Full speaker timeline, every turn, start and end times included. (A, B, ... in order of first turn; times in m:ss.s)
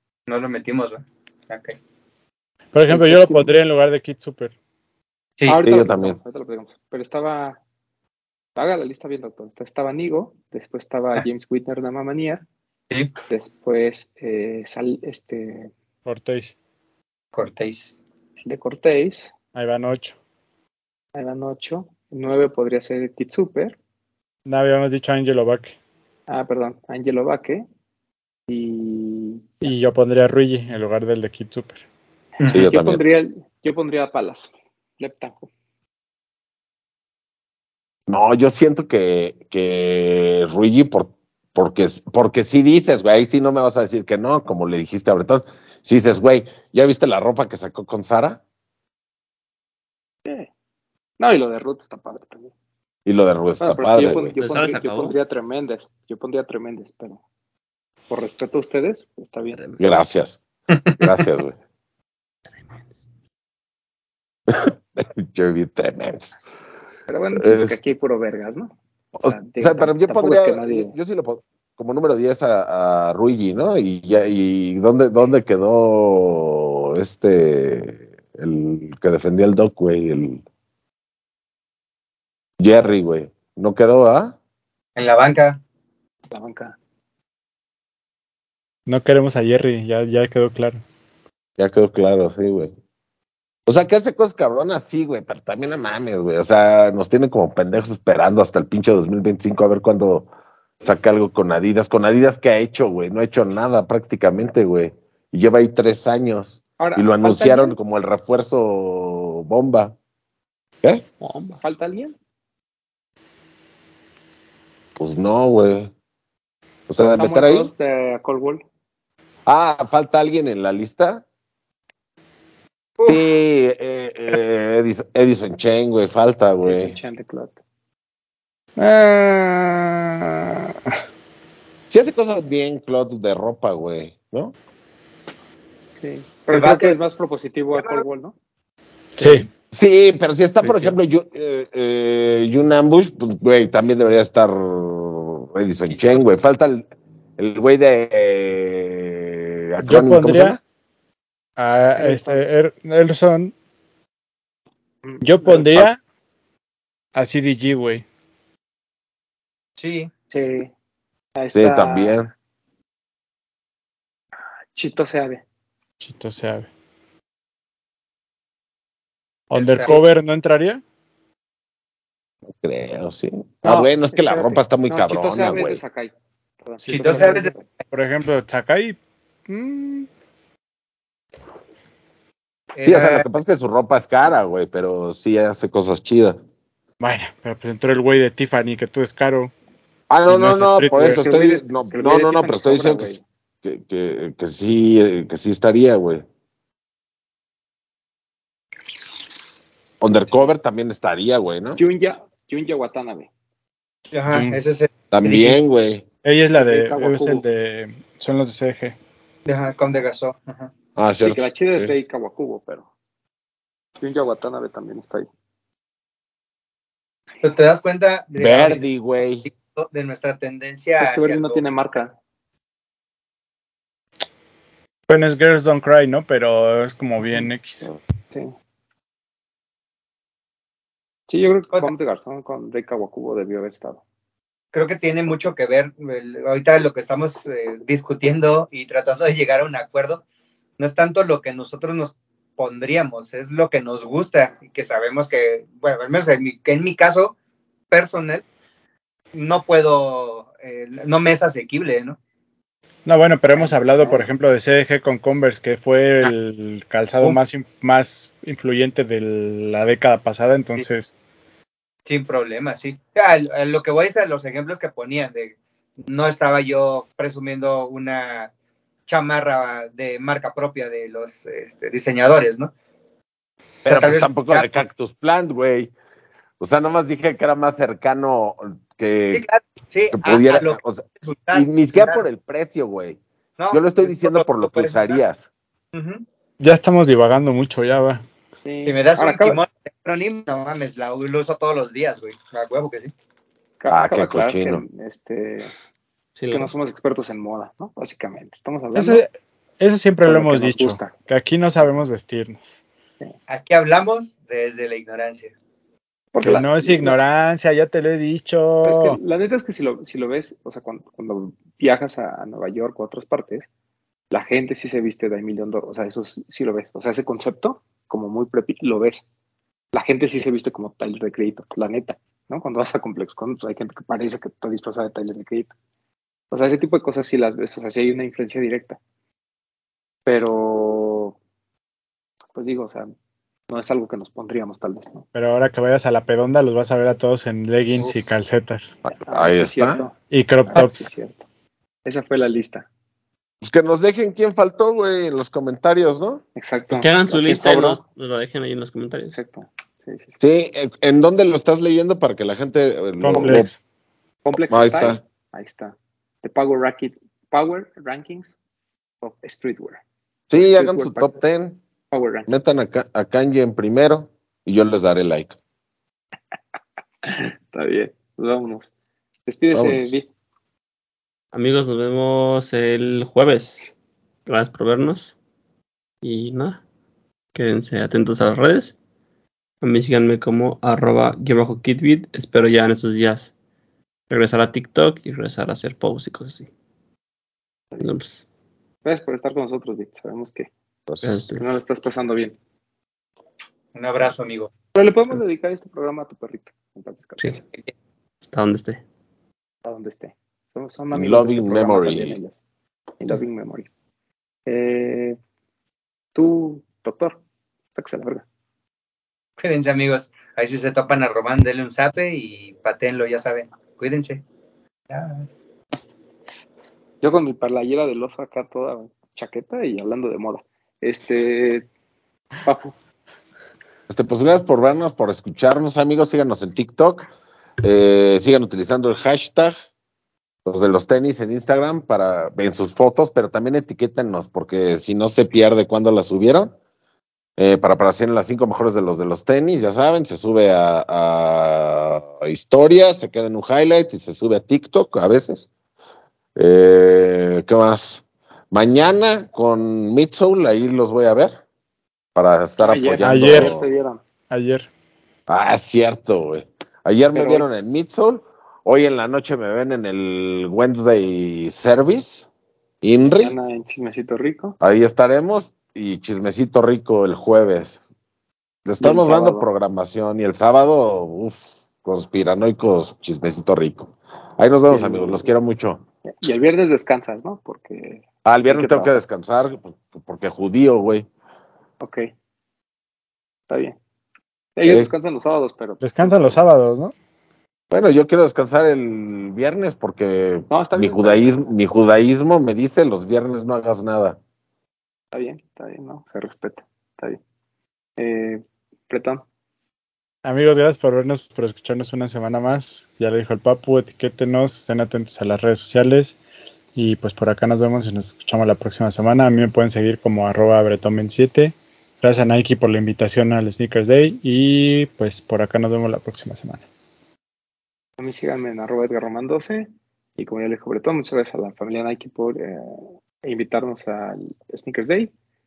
0:00.3-0:01.8 A
0:02.7-0:04.5 B
0:02.9-0:03.5 C
0:05.5-0:07.6 C
0:05.6-0:06.2 D
0:08.6-0:12.4 C
0:13.3-0:15.7 C
0:16.1-0:16.5 B
0:17.4-0:18.0 A
0:18.4-0:19.3 C
0:19.5-0:20.2 B
0:21.2-0:23.8 C
0:24.5-0:25.8 B
0:26.3-0:27.7 C
0:28.5-0:29.7 C
0:29.6-0:31.8 B
0:32.4-0:35.5 C
0:32.5-0:33.0 D
0:38.1-0:48.4 D
0:50.2-0:50.5 C
0:51.2-0:52.5 C
0:53.1-0:54.4 D
0:53.6-0:57.2 C
0:54.4-0:55.2 E
0:58.1-0:59.6 C
0:59.5-0:59.9 E
0:59.8-1:00.4 D
1:00.7-1:01.0 A
1:01.0-1:01.6 D
1:04.5-1:06.4 D
1:07.1-1:10.9 C
1:07.4-1:07.8 D
1:09.2-1:20.4 D
1:22.6-1:24.4 D
1:25.0-1:25.6 A
1:26.3-1:26.8 C
1:28.9-1:30.8 B
1:31.6-1:32.7 D
1:33.7-1:40.3 D
1:40.8-1:50.0 D
1:46.8-1:47.8 C
1:51.2-1:51.6 E
1:51.5-1:52.2 C
1:55.0-1:55.9 D
1:56.9-1:57.7 D
1:57.2-1:58.6 C
1:59.5-2:01.2 D
2:03.0-2:03.2 A
2:03.1-2:07.0 D
2:06.6-2:07.6 C
2:08.8-2:11.0 B
2:11.9-2:14.5 D
2:16.0-2:18.4 C
2:16.5-2:17.0 A
2:17.8-2:18.0 A
2:19.2-2:19.5 B
2:19.2-2:19.4 C
2:19.7-2:26.8 D
2:20.6-2:21.0 E
2:27.4-2:30.6 D
2:29.8-2:30.6 B
2:31.6-2:33.5 B
2:32.0-2:32.4 C
2:35.0-2:35.6 C
2:35.2-2:36.0 B
2:35.5-2:35.9 D
2:37.2-2:38.0 B
2:39.8-2:40.1 A
2:40.3-2:40.7 C
2:41.4-2:42.2 C
2:41.5-2:42.3 D
2:44.7-2:45.4 C
2:46.0-2:46.7 B
2:49.5-2:50.8 B
2:49.6-2:49.9 A
2:52.5-2:55.8 D
2:53.6-2:56.1 C
2:56.6-2:57.6 C
2:56.9-2:57.6 A
2:57.9-3:00.1 B
3:02.8-3:03.2 A
3:02.8-3:06.4 D
3:07.0-3:09.5 B
3:10.1-3:16.2 D
3:10.3-3:11.2 B
3:10.9-3:13.2 C
3:20.0-3:21.8 D
3:21.8-3:23.3 C
3:24.1-3:24.9 A
3:24.3-3:24.6 B
3:25.1-3:26.0 D
3:25.2-3:25.6 B
3:26.2-3:29.0 B
3:26.6-3:27.4 C
3:29.5-3:30.7 A
3:31.0-3:31.9 D
3:31.2-3:32.9 C
3:34.0-3:35.3 C
3:37.4-3:38.8 A
3:38.4-3:39.5 D
3:39.4-3:41.6 A
3:41.0-3:42.2 C
3:45.1-3:47.9 B
3:51.3-3:54.0 C
3:54.7-4:00.2 A
4:00.8-4:07.4 A
4:07.9-4:08.4 A
4:09.3-4:12.2 A
4:13.0-4:21.1 B
4:13.6-4:14.2 C
4:22.1-4:25.6 A
4:26.1-4:28.5 A
4:29.1-4:32.7 A
4:33.8-4:35.9 D
4:33.9-4:34.7 A
4:36.6-4:39.4 D
4:39.3-4:42.2 A
4:40.1-4:43.2 D
4:43.6-4:45.2 A
4:43.7-4:45.5 D
4:45.9-4:46.2 A
4:46.6-4:48.2 B
4:48.6-4:49.6 C
4:48.9-4:53.1 A
4:53.8-4:55.7 C
4:53.9-4:54.8 D
4:56.4-4:56.7 E
4:56.5-4:59.2 C
4:58.9-5:02.8 B
5:00.2-5:01.1 C
5:03.5-5:05.5 A
5:06.3-5:07.2 C
5:06.4-5:09.2 B
5:08.8-5:13.7 C
5:14.3-5:19.2 C
5:19.9-5:25.7 C
5:26.5-5:29.0 C
5:30.3-5:31.4 C
5:32.6-5:33.1 C
5:33.7-5:35.3 C
5:35.3-5:39.0 B
5:39.0-5:40.0 D
5:39.1-5:41.4 C
5:40.3-5:41.1 B
5:42.0-5:42.9 C
5:43.6-5:46.4 D
5:46.6-5:48.0 C
5:46.9-5:49.4 E
5:49.3-5:50.4 C
5:50.4-5:53.7 D
5:53.2-5:53.8 B
5:54.4-5:58.6 C
5:54.7-5:55.2 D
5:59.2-6:00.0 C
6:00.5-6:01.8 D
6:00.6-6:01.4 C
6:02.1-6:02.5 C
6:02.5-6:05.6 D
6:07.2-6:08.9 C
6:09.5-6:10.3 C
6:09.7-6:10.1 D
6:11.5-6:13.9 E
6:14.5-6:15.3 E
6:16.2-6:16.8 E
6:17.5-6:19.0 E
6:19.8-6:23.5 E
6:24.3-6:26.7 E
6:28.0-6:28.4 E
6:29.0-6:30.7 C
6:31.1-6:31.4 D
6:31.2-6:31.8 E
6:31.5-6:32.6 C
6:33.9-6:34.7 A
6:34.9-6:37.6 C
6:38.4-6:39.0 E
6:39.8-6:42.6 C
6:41.1-6:42.4 D
6:43.2-6:43.9 C
6:44.7-6:45.4 C
6:46.4-6:47.4 C
6:48.0-6:48.4 C
6:49.6-6:54.4 A
6:55.1-6:55.5 A
6:57.2-7:01.9 C
7:02.6-7:03.0 C
7:04.1-7:07.3 D
7:07.8-7:09.7 D
7:10.6-7:16.7 D
7:17.6-7:25.7 D
7:26.6-7:31.6 D
7:32.4-7:33.9 D
7:32.8-7:34.2 C
7:33.2-7:33.7 B
7:34.5-7:34.9 B
7:35.5-7:42.5 D
7:37.3-7:37.7 C
7:43.0-7:43.6 D
7:43.3-7:44.8 C
7:44.8-7:48.0 D
7:48.8-7:56.0 D
7:49.0-7:49.7 C
7:54.9-7:55.5 C
7:56.3-7:59.2 C
7:58.4-8:01.3 D
8:02.0-8:02.2 C
8:03.7-8:04.0 C
8:04.8-8:06.6 C
8:04.8-8:05.1 D
8:06.0-8:07.1 B
8:07.9-8:14.4 D
8:10.7-8:11.6 C
8:15.3-8:17.4 C
8:18.2-8:19.4 C
8:20.4-8:26.4 B
8:27.0-8:36.8 B
8:38.2-8:45.3 C